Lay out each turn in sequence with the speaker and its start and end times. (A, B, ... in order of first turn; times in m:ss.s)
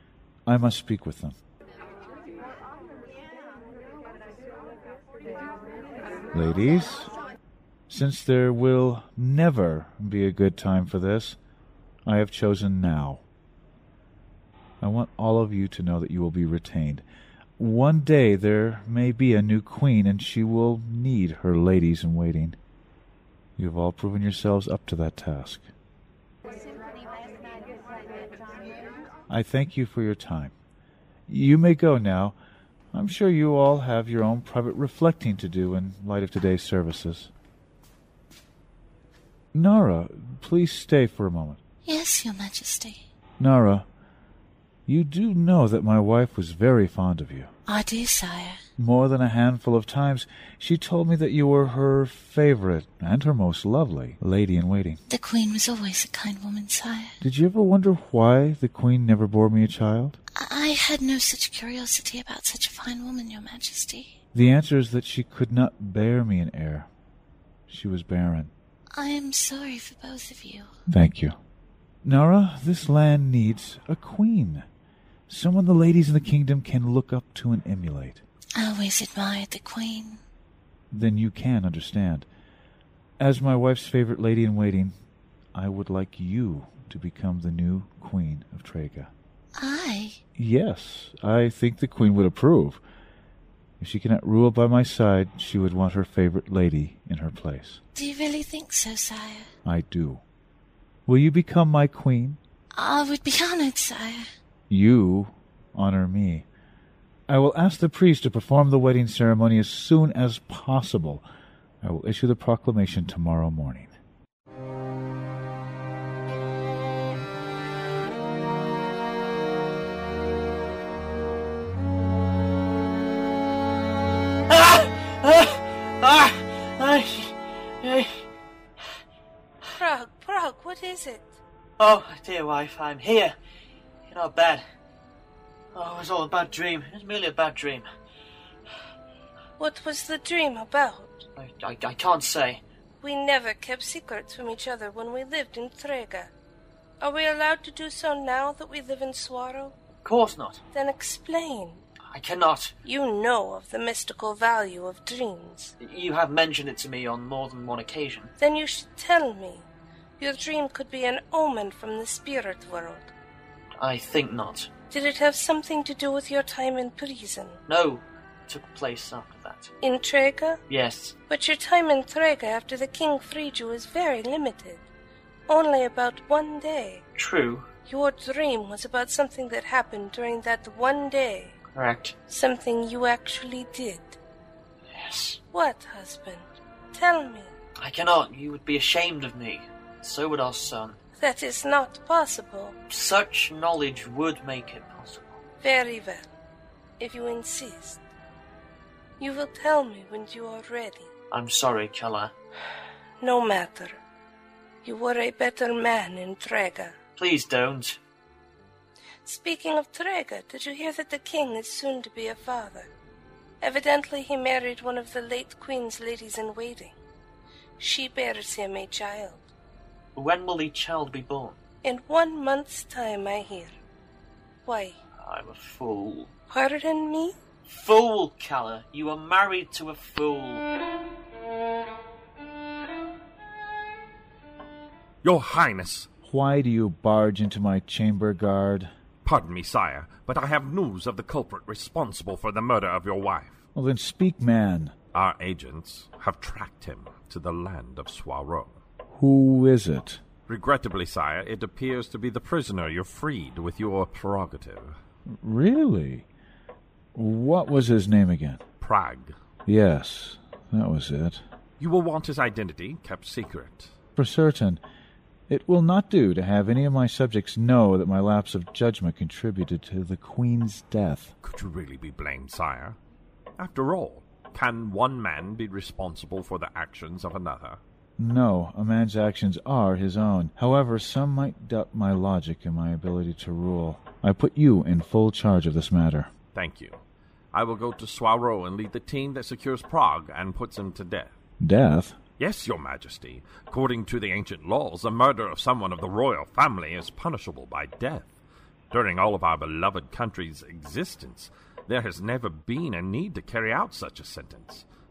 0:00.4-0:01.4 A
0:06.3-0:07.1 A
0:07.9-0:11.4 A
0:12.0-0:13.2 A
0:14.8-0:17.0 A
0:17.6-0:22.6 A
0:23.6-0:25.7 A
0:29.3-0:30.5 A
0:31.3-0:32.4 A
0:32.9-0:37.3 A
0:39.5-0:41.6 A
0:41.8-0:43.0 B
0:43.4-0:43.8 A
0:44.8-0:47.5 A
0:47.7-0:48.6 B
0:48.8-0:55.0 A
0:55.1-0:57.2 B
0:57.2-1:00.2 A
1:00.4-1:04.2 B
1:04.3-1:06.9 A
1:07.7-1:08.5 A
1:08.9-1:10.7 B
1:10.9-1:11.4 A
1:12.0-1:14.6 A
1:15.3-1:18.2 A
1:18.6-1:20.2 B
1:20.9-1:22.3 A
1:23.2-1:24.9 A
1:25.5-1:29.1 A
1:29.6-1:30.2 B
1:30.4-1:32.8 A
1:33.8-1:37.8 A
1:37.9-1:39.5 B
1:39.6-1:40.2 A
1:41.0-1:42.4 A
1:42.7-1:44.3 B
1:44.7-1:46.4 A
1:47.3-1:51.2 A
1:51.8-1:53.9 A
2:04.5-2:08.2 C
2:09.8-2:11.4 D
2:11.8-2:13.3 C
2:14.1-2:14.6 C
2:15.7-2:17.8 C
2:19.6-2:21.2 D
2:21.4-2:22.6 C
2:23.0-2:26.3 D
2:27.0-2:29.7 D
2:30.0-2:30.6 C
2:30.7-2:31.8 D
2:32.1-2:32.7 C
2:32.8-2:35.7 D
2:35.8-2:38.3 C
2:38.4-2:39.6 D
2:40.2-2:43.1 D
2:43.8-2:44.7 C
2:44.9-2:47.6 D
2:47.7-2:49.7 C
2:49.8-2:50.6 D
2:50.7-2:51.1 C
2:51.3-2:54.8 D
2:55.5-2:57.0 D
2:57.2-2:57.7 C
2:57.9-3:01.6 D
3:01.7-3:02.2 C
3:02.3-3:04.2 D
3:04.9-3:05.4 C
3:05.5-3:07.5 D
3:07.8-3:11.0 C
3:11.2-3:12.8 D
3:12.9-3:15.4 C
3:15.6-3:16.2 D
3:17.0-3:18.0 D
3:19.2-3:21.1 D
3:21.3-3:22.3 C
3:23.2-3:24.0 D
3:24.8-3:27.0 D
3:27.2-3:28.0 C
3:29.2-3:32.9 D
3:33.6-3:37.0 D
3:37.8-3:39.5 D
3:40.1-3:41.6 C
3:41.8-3:43.7 D
3:44.6-3:45.0 D
3:45.2-3:46.3 C
3:46.5-3:47.3 D
3:47.6-3:50.6 C
3:55.2-3:56.1 E
3:56.2-3:58.9 A
3:59.2-4:03.6 E
4:03.7-4:04.9 A
4:05.1-4:08.8 E
4:09.1-4:10.2 A
4:10.5-4:15.0 E
4:15.3-4:16.2 A
4:17.1-4:18.6 A
4:18.8-4:19.4 E
4:19.6-4:21.4 A
4:21.8-4:23.9 E
4:24.2-4:24.8 A
4:25.5-4:31.3 A
4:31.4-4:33.0 E
4:33.6-4:37.8 E
4:38.2-4:46.3 A
4:46.5-4:47.0 E
4:47.5-4:51.3 E
4:51.6-4:52.2 A
4:52.4-4:58.3 E
4:58.9-5:04.8 E